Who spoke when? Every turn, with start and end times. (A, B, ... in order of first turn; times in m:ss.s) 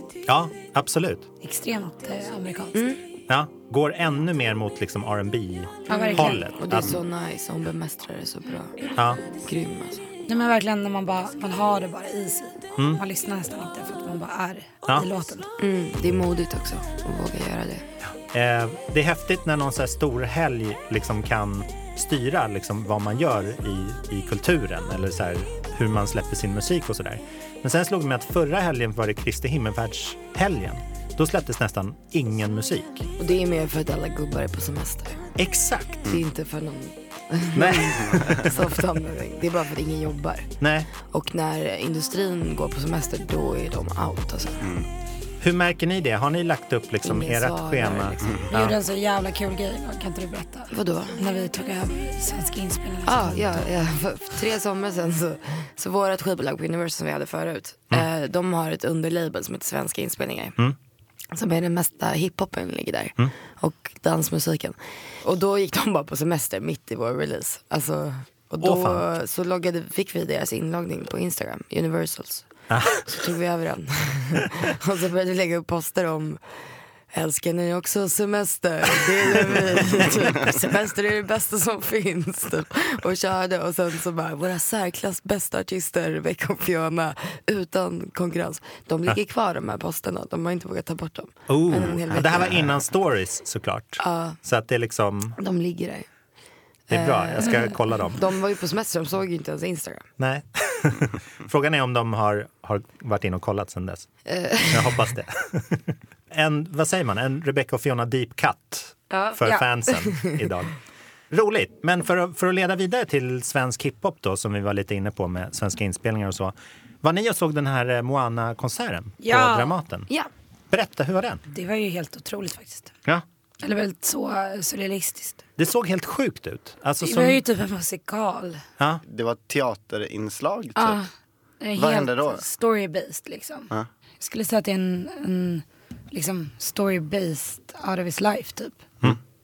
0:00.2-0:01.2 A
0:01.4-0:02.8 B
0:02.7-0:03.0 C
0:03.3-0:07.0 A
0:05.9-0:06.4 B
0:05.9-0:10.1 C
0:09.0-0:09.2 A
0:10.3-0:15.5 B
0:15.6-0:17.8 C
0:18.3-0:33.1 A
0:33.2-0:35.3 C
0:35.4-0:36.1 A
0:36.1-0:44.6 C
0:37.5-0:38.5 A
0:38.0-0:38.4 D
0:40.6-0:40.9 A
0:44.6-0:44.9 D
0:45.4-0:48.8 A
0:47.0-0:48.5 C
0:48.5-0:53.6 B
0:50.7-0:51.2 C
0:53.0-1:00.6 C
1:01.3-1:16.4 C
1:08.6-1:09.0 A
1:12.7-1:13.0 A
1:17.1-1:32.7 C
1:31.5-1:35.4 A
1:34.0-1:34.4 C
1:35.4-1:36.0 C
1:36.9-1:40.1 C
1:36.9-1:38.2 A
1:40.2-1:44.1 A
1:44.3-1:45.0 C
1:44.7-1:50.7 A
1:49.1-1:49.4 C
1:50.0-1:50.3 C
1:51.3-2:00.1 A
1:59.2-1:59.7 B
2:00.7-2:01.4 A
2:01.5-2:02.9 B
2:03.6-2:05.4 B
2:05.6-2:07.4 A
2:07.0-2:08.6 B
2:09.0-2:11.0 D
2:10.8-2:11.1 B
2:11.6-2:18.8 B
2:11.7-2:12.4 D